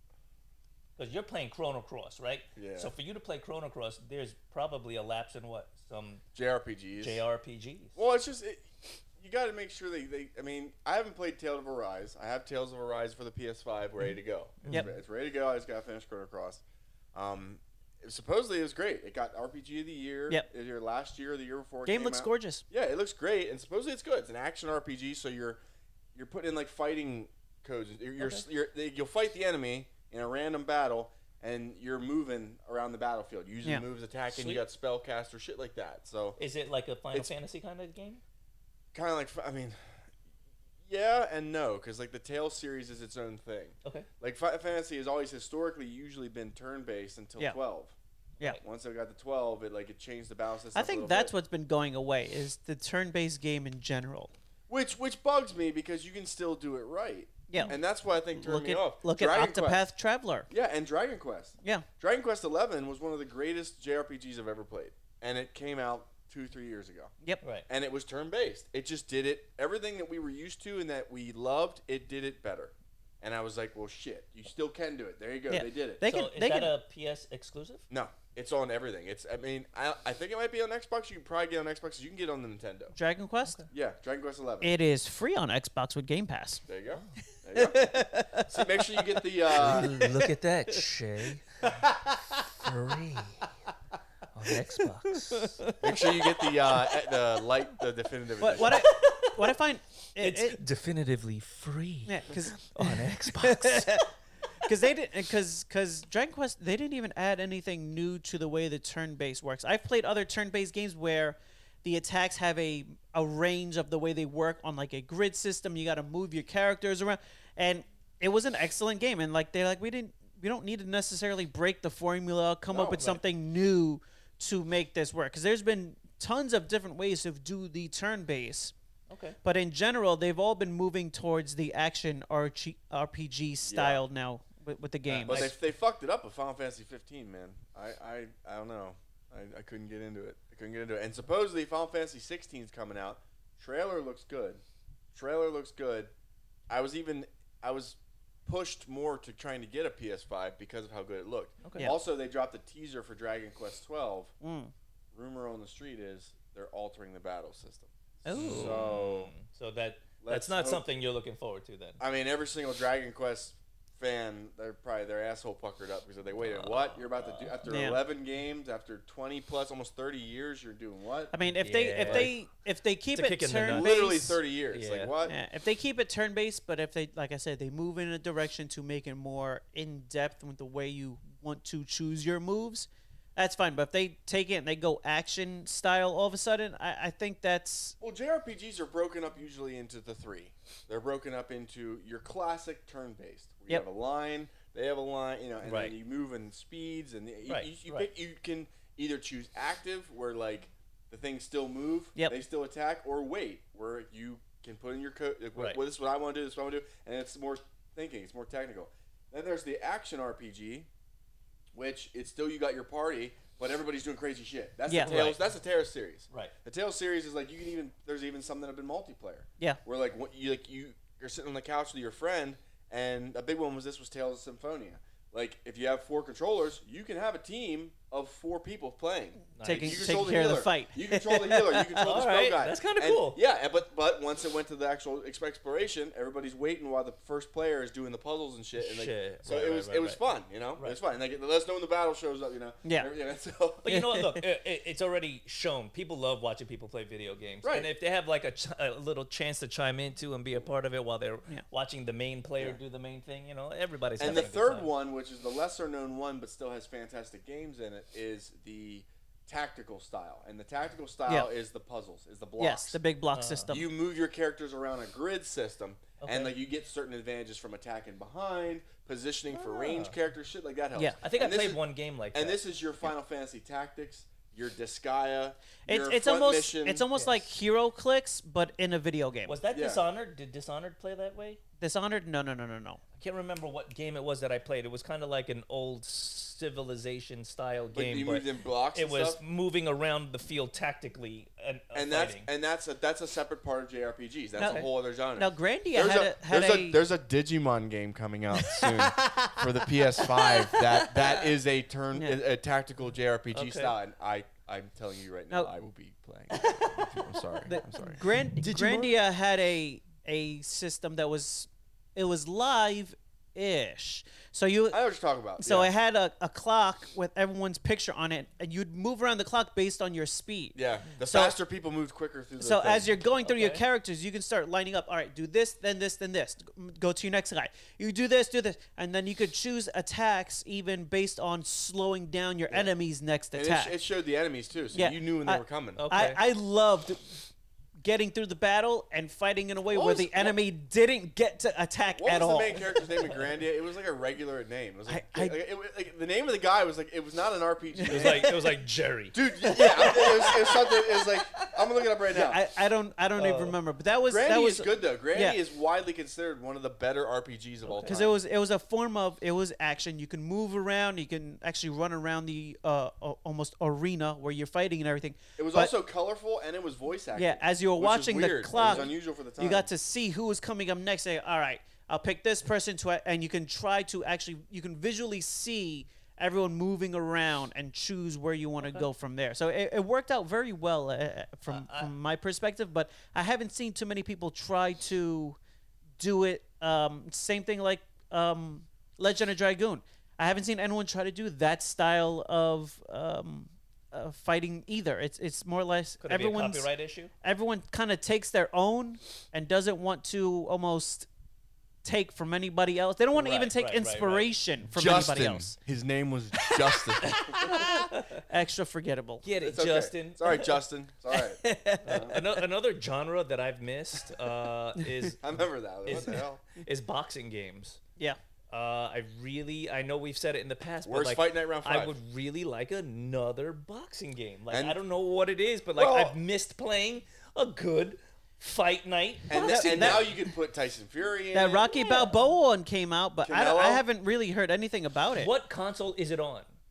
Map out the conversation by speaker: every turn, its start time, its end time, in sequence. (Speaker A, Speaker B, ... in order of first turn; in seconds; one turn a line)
Speaker A: 1.0-6.2
Speaker B: 2.5-2.9
Speaker B: 6.3-7.2
Speaker A: 7.0-8.0
Speaker B: 8.0-16.6
Speaker A: 14.6-14.9
Speaker B: 17.1-25.6
Speaker C: 21.9-22.6
Speaker B: 26.1-36.4
Speaker A: 34.3-34.6
Speaker A: 36.4-38.2
Speaker B: 38.9-40.1
Speaker B: 40.9-47.9
Speaker B: 48.6-51.3
Speaker C: 50.7-54.3
Speaker B: 54.7-59.8
Speaker C: 57.5-57.8
Speaker C: 58.4-60.5
Speaker B: 60.5-67.1
Speaker B: 67.7-76.0
Speaker C: 75.5-76.7
Speaker A: 76.0-77.8
Speaker B: 77.9-82.9
Speaker C: 82.9-83.6
Speaker B: 83.7-84.7
Speaker C: 84.6-86.6
Speaker B: 86.7-89.9
Speaker C: 87.5-90.8
Speaker A: 89.5-91.5
Speaker C: 91.7-92.5
Speaker A: 92.5-93.5
Speaker A: 94.3-95.6
Speaker C: 95.1-97.0
Speaker B: 95.8-98.9
Speaker C: 98.4-100.6
Speaker A: 98.6-99.5
Speaker A: 100.2-104.0
Speaker C: 102.1-104.1
Speaker C: 104.6-128.7
Speaker B: 122.7-123.1
Speaker A: 122.9-123.2
Speaker A: 129.1-129.4
Speaker C: 129.4-135.5
Speaker B: 133.7-134.0
Speaker A: 135.1-135.5
Speaker B: 135.2-144.6
Speaker B: 145.1-146.1
Speaker B: 146.7-154.3
Speaker A: 151.6-151.9
Speaker C: 154.4-154.7
Speaker B: 155.1-159.3
Speaker C: 158.2-158.8
Speaker A: 158.3-162.0
Speaker B: 160.2-160.8
Speaker B: 162.0-171.3
Speaker A: 166.4-167.6
Speaker C: 167.7-168.0
Speaker C: 171.3-174.4
Speaker A: 171.5-172.4
Speaker B: 172.0-172.3
Speaker A: 173.1-173.9
Speaker B: 173.7-175.3
Speaker A: 174.7-175.1
Speaker C: 175.2-187.9
Speaker B: 188.0-210.9
Speaker A: 195.6-195.9
Speaker A: 197.5-198.1
Speaker B: 211.7-243.8
Speaker C: 214.9-215.2
Speaker A: 215.0-215.4
Speaker A: 229.5-230.1
Speaker C: 229.6-232.1
Speaker A: 232.0-233.4
Speaker A: 238.8-240.2
Speaker C: 242.8-243.1
Speaker A: 243.8-254.9
Speaker C: 243.8-244.4
Speaker B: 247.6-247.9
Speaker B: 254.2-263.0
Speaker C: 262.6-263.9
Speaker A: 263.3-263.7
Speaker B: 263.7-271.8
Speaker A: 266.2-266.5
Speaker A: 269.5-270.1
Speaker A: 271.2-272.6
Speaker B: 272.3-277.1
Speaker C: 275.9-279.6
Speaker A: 277.1-277.5
Speaker A: 279.5-281.6
Speaker B: 279.7-280.0
Speaker C: 281.8-283.0
Speaker A: 283.2-292.5
Speaker B: 287.9-289.4
Speaker B: 291.9-308.2
Speaker C: 294.6-294.8
Speaker A: 294.6-294.9
Speaker C: 295.4-297.0
Speaker C: 298.6-299.7
Speaker C: 300.2-300.5
Speaker A: 303.5-303.9
Speaker A: 306.6-307.0
Speaker C: 307.6-315.0
Speaker A: 308.6-309.1
Speaker B: 314.9-315.9
Speaker C: 315.6-321.5
Speaker B: 320.7-323.2
Speaker C: 322.6-333.9
Speaker A: 323.4-323.8
Speaker B: 333.5-336.0
Speaker C: 334.9-337.4
Speaker A: 336.0-336.4
Speaker C: 338.0-343.0
Speaker B: 339.9-340.6
Speaker B: 342.1-348.5
Speaker C: 345.1-345.6
Speaker C: 347.9-348.6
Speaker A: 348.1-350.5
Speaker B: 349.3-352.6
Speaker C: 349.6-351.3
Speaker C: 352.3-355.6
Speaker A: 353.4-353.8
Speaker B: 354.3-358.4
Speaker A: 357.8-358.2
Speaker C: 358.1-365.9
Speaker B: 365.6-369.9
Speaker C: 367.3-385.6
Speaker A: 381.7-382.1
Speaker C: 386.2-396.9
Speaker A: 396.2-397.3
Speaker C: 397.4-401.3
Speaker C: 402.0-405.8
Speaker A: 403.3-404.5
Speaker B: 404.9-407.6
Speaker C: 406.7-409.4
Speaker A: 407.2-408.4
Speaker A: 409.4-410.7
Speaker B: 409.6-412.3
Speaker C: 411.3-412.6
Speaker A: 412.0-415.4
Speaker B: 415.4-416.6
Speaker A: 416.0-418.0
Speaker A: 418.7-430.4
Speaker B: 421.0-422.2
Speaker B: 424.7-425.0
Speaker B: 425.9-426.4
Speaker B: 429.5-431.9
Speaker C: 429.5-430.4
Speaker C: 431.5-435.5
Speaker A: 431.9-432.3
Speaker B: 433.4-434.0
Speaker A: 435.3-436.7